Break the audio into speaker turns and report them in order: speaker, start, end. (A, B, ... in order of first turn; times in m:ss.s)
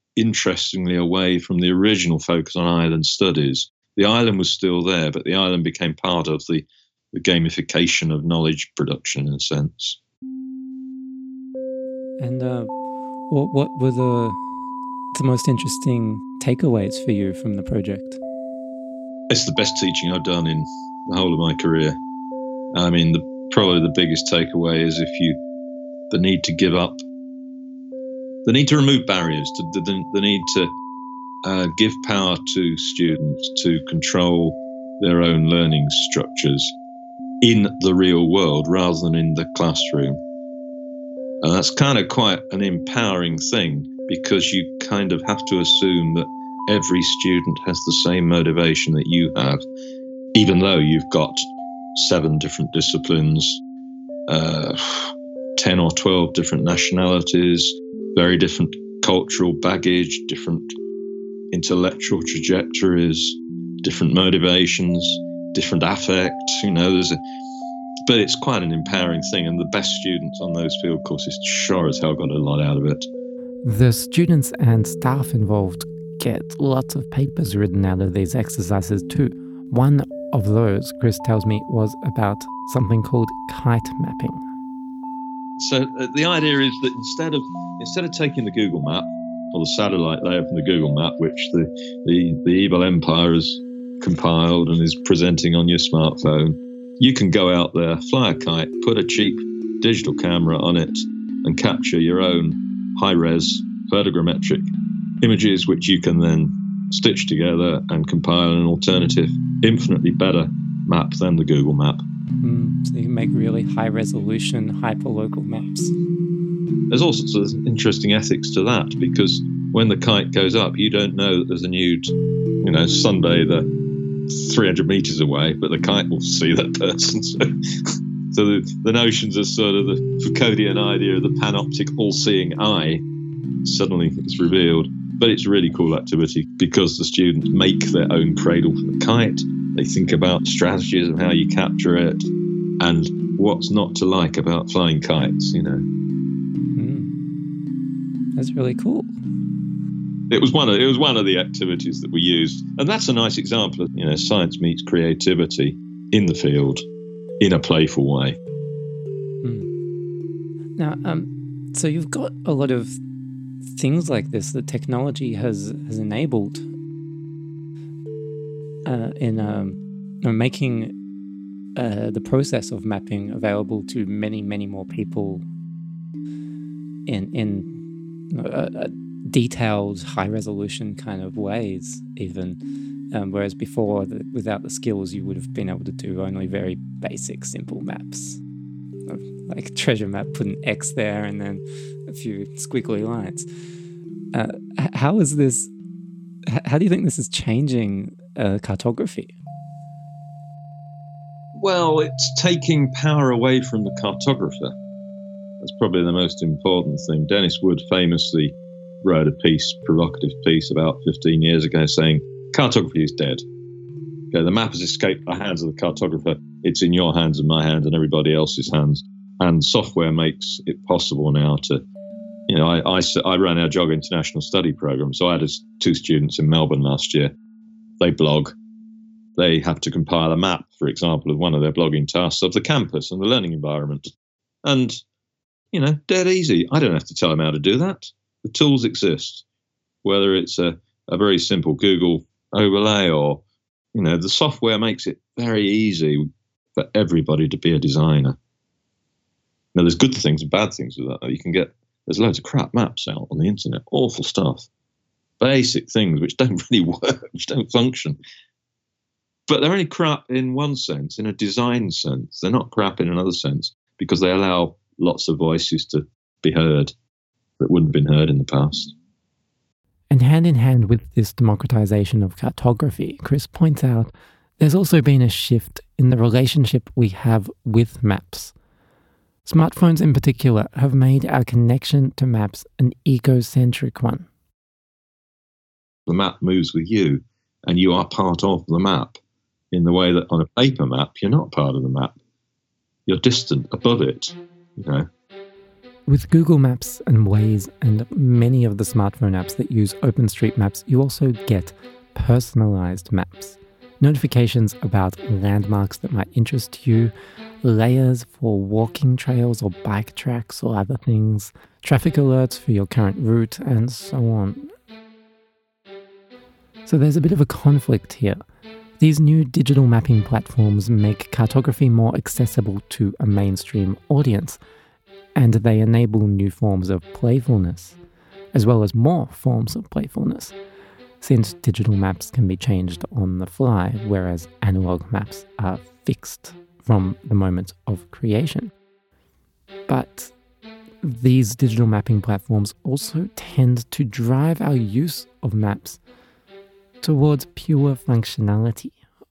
0:00.2-0:10.0 A
0:12.2-0:12.7 B
0:13.3-0:14.4 B
0:15.1-0:18.2 B
0:19.3-0:22.0 A
0:22.7-0:25.4 A
0:26.1-0:27.0 A
0:28.4-0:30.7 A
0:31.4-0:36.8 A
0:37.4-0:40.2 A
0:41.4-0:49.6 A
0:50.4-0:51.4 A
0:52.0-0:53.6 A
0:54.3-1:00.7 A
1:01.5-1:07.2 A
1:08.0-1:13.0 A
1:13.6-1:24.4 B
1:25.6-1:44.7 A
1:45.2-1:52.0 A
1:52.4-1:55.9 B
1:56.9-2:03.7 A
2:04.3-2:13.0 A
2:13.6-2:22.3 A
2:22.8-2:25.8 A
2:26.8-2:27.1 B
2:28.4-2:29.1 B
2:30.3-2:36.8 A
2:37.4-2:38.4 A
2:39.4-2:39.7 B
2:40.8-2:43.0 B
2:43.6-2:46.7 B
2:48.9-2:50.9 B
2:51.8-2:55.4 B
2:57.1-3:02.6 B
3:03.1-3:08.4 B
3:09.1-3:13.5 B
3:14.3-3:15.7 B
3:16.5-3:19.3 B
3:21.6-3:24.8 A
3:25.6-3:33.4 A
3:34.3-3:41.8 A
3:42.5-3:47.3 A
3:48.0-3:48.6 A
3:49.4-3:54.1 A
3:54.6-3:55.0 A
3:55.7-3:59.4 A
4:00.0-4:06.2 A
4:06.8-4:08.4 A
4:09.7-4:14.7 A
4:15.4-4:18.2 A
4:19.5-4:26.9 A
4:27.6-4:28.9 A
4:30.1-4:38.5 B
4:39.5-4:44.3 B
4:46.1-4:49.2 A
4:49.7-4:52.2 A
4:53.1-4:55.1 A
4:56.1-5:07.1 B
5:07.6-5:14.7 B
5:16.9-5:18.4 B
5:19.0-5:24.6 B
5:25.4-5:28.0 B
5:28.5-5:30.6 B
5:31.2-5:38.7 B
5:39.9-5:40.3 B
5:41.0-5:46.0 B
5:47.0-5:49.0 B